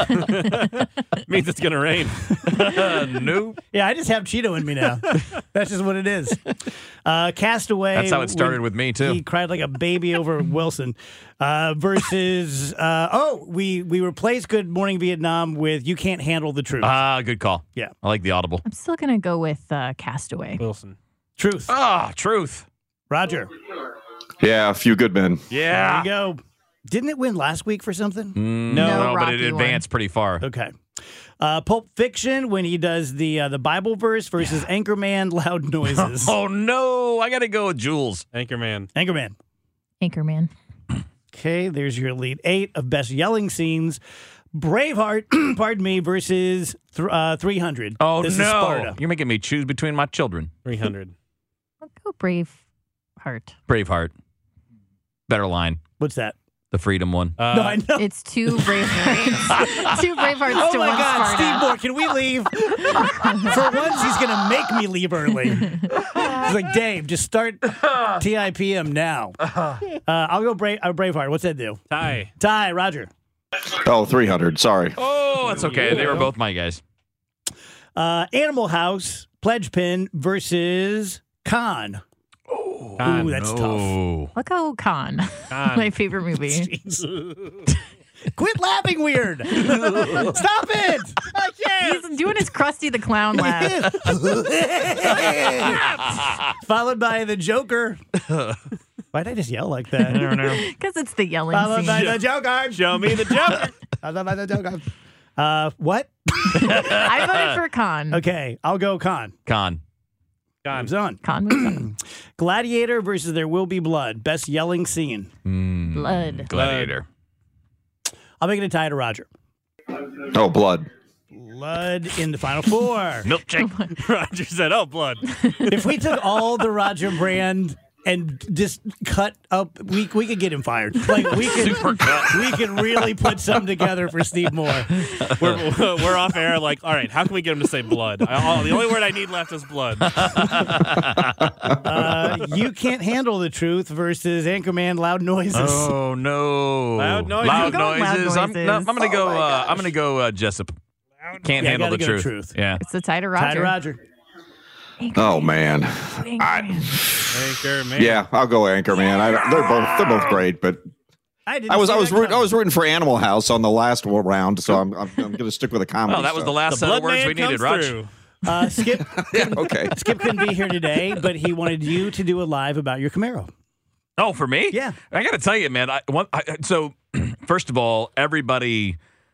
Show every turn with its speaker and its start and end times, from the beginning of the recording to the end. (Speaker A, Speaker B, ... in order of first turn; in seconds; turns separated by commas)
Speaker A: 0.2-2.2, Speaker B: 2.5-3.6, Speaker C: 3.7-6.4, Speaker C: 7.0-17.0, Speaker B: 7.9-9.2, Speaker B: 16.8-18.6, Speaker D: 18.6-20.6, Speaker A: 20.6-20.9, Speaker C: 21.4-21.7, Speaker B: 21.7-22.6, Speaker C: 23.1-23.5, Speaker E: 24.4-25.4, Speaker B: 25.5-26.1, Speaker C: 25.7-28.4, Speaker B: 28.3-30.4, Speaker A: 28.7-29.1, Speaker D: 28.7-29.8, Speaker C: 30.4-30.7, Speaker C: 31.4-36.4, Speaker B: 36.0-38.2, Speaker A: 38.3-38.9, Speaker C: 38.9-39.3, Speaker D: 40.0-40.5, Speaker C: 41.3-44.0, Speaker C: 44.5-49.0, Speaker B: 48.0-50.5, Speaker A: 50.6-51.1, Speaker D: 51.8-52.6, Speaker D: 53.2-53.5, Speaker B: 53.7-54.1, Speaker B: 55.3-55.8, Speaker C: 56.0-56.3, Speaker B: 56.7-57.4, Speaker A: 57.4-57.8, Speaker C: 57.5-58.1, Speaker D: 58.0-61.7, Speaker C: 60.4-69.3, Speaker D: 62.9-63.5, Speaker C: 70.0-71.8, Speaker A: 71.9-72.3, Speaker C: 72.4-73.1, Speaker E: 73.7-75.0, Speaker B: 75.0-76.8, Speaker A: 75.5-76.3, Speaker C: 78.0-82.0, Speaker B: 82.5-84.3, Speaker A: 83.0-83.3, Speaker C: 83.0-84.0, Speaker D: 84.3-86.7, Speaker A: 85.5-85.9, Speaker C: 86.5-87.0, Speaker C: 88.3-91.3, Speaker A: 91.3-91.9, Speaker D: 91.8-93.9, Speaker C: 93.3-96.0, Speaker C: 96.6-98.0, Speaker B: 98.3-98.6, Speaker C: 99.1-100.4, Speaker B: 100.0-100.6, Speaker D: 100.4-102.1, Speaker C: 101.5-106.1, Speaker A: 101.9-103.7, Speaker B: 106.7-107.0, Speaker D: 106.8-108.2, Speaker C: 108.1-109.3, Speaker B: 109.5-109.8, Speaker A: 110.6-110.9, Speaker C: 110.7-115.3, Speaker D: 111.2-111.9, Speaker B: 115.4-117.0, Speaker D: 115.9-116.5, Speaker A: 116.5-116.9, Speaker C: 118.4-119.3, Speaker E: 120.2-120.9, Speaker C: 121.3-123.3, Speaker B: 123.2-123.7, Speaker D: 123.6-123.9, Speaker A: 124.0-125.2, Speaker C: 125.7-134.9, Speaker B: 131.4-133.1, Speaker B: 134.9-135.6, Speaker A: 135.4-140.3, Speaker B: 140.1-141.5, Speaker C: 141.8-145.9, Speaker B: 145.5-150.7, Speaker A: 147.0-147.8, Speaker D: 147.4-149.0, Speaker B: 151.4-152.8, Speaker C: 151.6-152.6, Speaker D: 152.8-153.8, Speaker C: 153.3-154.0, Speaker D: 155.0-155.6, Speaker E: 155.2-157.4, Speaker D: 156.2-156.9, Speaker A: 157.3-158.2, Speaker E: 157.9-160.8, Speaker C: 161.5-162.5, Speaker E: 161.7-166.6, Speaker B: 166.1-168.0, Speaker A: 166.7-168.1, Speaker C: 168.4-173.5, Speaker E: 169.1-169.9, Speaker B: 169.3-169.6, Speaker B: 174.2-179.0, Speaker C: 174.7-175.0